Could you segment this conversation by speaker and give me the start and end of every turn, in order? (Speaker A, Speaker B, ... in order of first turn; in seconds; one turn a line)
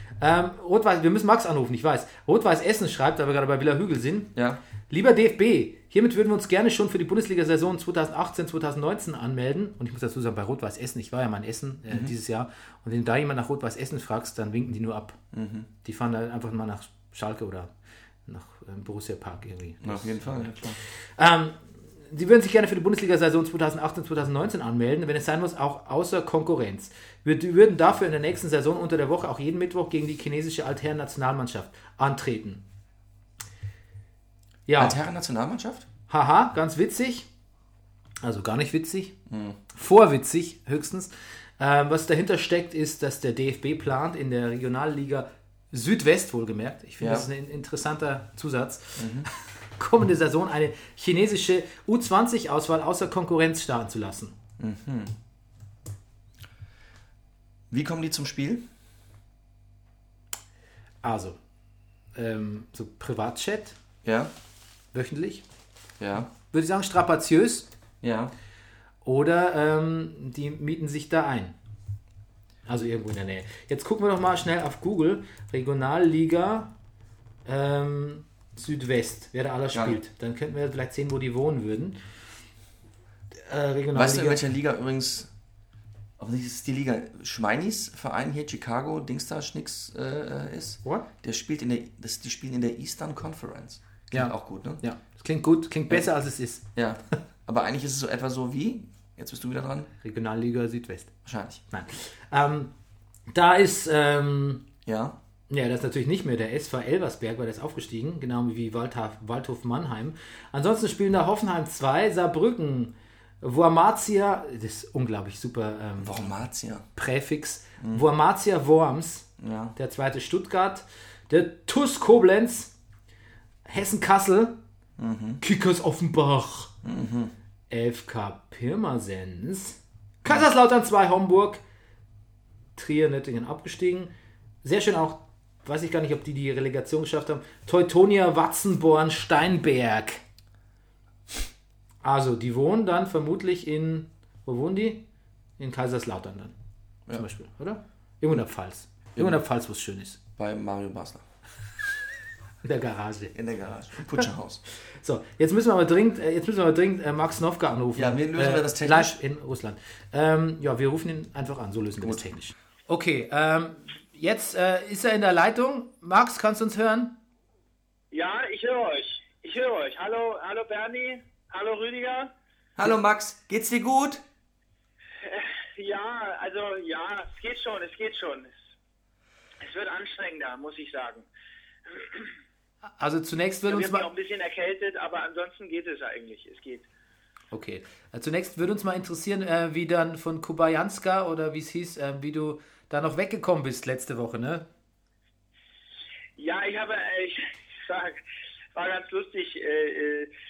Speaker A: 0.2-4.3
Speaker B: 4.3-4.6
Speaker A: 4.9-15.2
Speaker B: 11.9-12.1
Speaker B: 15.3-15.7
Speaker A: 15.8-17.7
Speaker A: 18.2-20.6
Speaker B: 19.8-20.8
Speaker A: 21.2-32.6
Speaker A: 34.7-35.0
Speaker B: 34.8-35.9
Speaker A: 36.1-37.3
Speaker A: 38.2-39.1
Speaker B: 39.3-39.6
Speaker A: 39.7-54.4
Speaker B: 47.0-47.3
Speaker B: 49.0-49.3
Speaker B: 54.6-55.1
Speaker B: 57.7-58.6
Speaker A: 61.0-61.4
Speaker A: 62.1-63.8
Speaker B: 64.0-64.3
Speaker A: 64.9-65.4
Speaker B: 66.0-66.3
Speaker A: 66.3-67.7
Speaker B: 68.0-68.3
Speaker A: 69.0-71.5
Speaker A: 72.7-76.7
Speaker A: 77.4-82.0
Speaker B: 79.7-80.0
Speaker A: 83.3-84.4
Speaker B: 83.9-85.3
Speaker B: 86.2-94.8
Speaker A: 94.1-96.7
Speaker B: 96.7-99.9
Speaker A: 100.0-101.1
Speaker B: 101.2-101.6
Speaker A: 101.7-102.7
Speaker A: 103.3-104.7
Speaker B: 104.8-105.2
Speaker A: 105.5-116.3
Speaker B: 116.0-116.9
Speaker A: 117.0-122.7
Speaker B: 119.4-119.7
Speaker A: 123.7-124.6
Speaker B: 125.0-125.4
Speaker A: 125.4-126.7
Speaker B: 126.8-127.3
Speaker A: 127.7-131.6
Speaker A: 132.8-134.1
Speaker A: 134.6-140.2
Speaker A: 142.0-145.1
Speaker A: 145.6-146.5
Speaker A: 147.1-150.2
Speaker B: 150.3-151.2
Speaker A: 152.6-153.3
Speaker B: 153.3-154.6
Speaker A: 154.7-167.2
Speaker B: 157.9-159.2
Speaker B: 162.0-162.3
Speaker C: 168.1-172.3
Speaker B: 172.8-174.2
Speaker C: 175.2-178.5
Speaker C: 179.6-181.3
Speaker C: 181.9-182.3
Speaker A: 183.0-184.1
Speaker C: 183.7-186.9
Speaker A: 187.5-194.7
Speaker C: 196.4-198.2
Speaker C: 198.7-200.3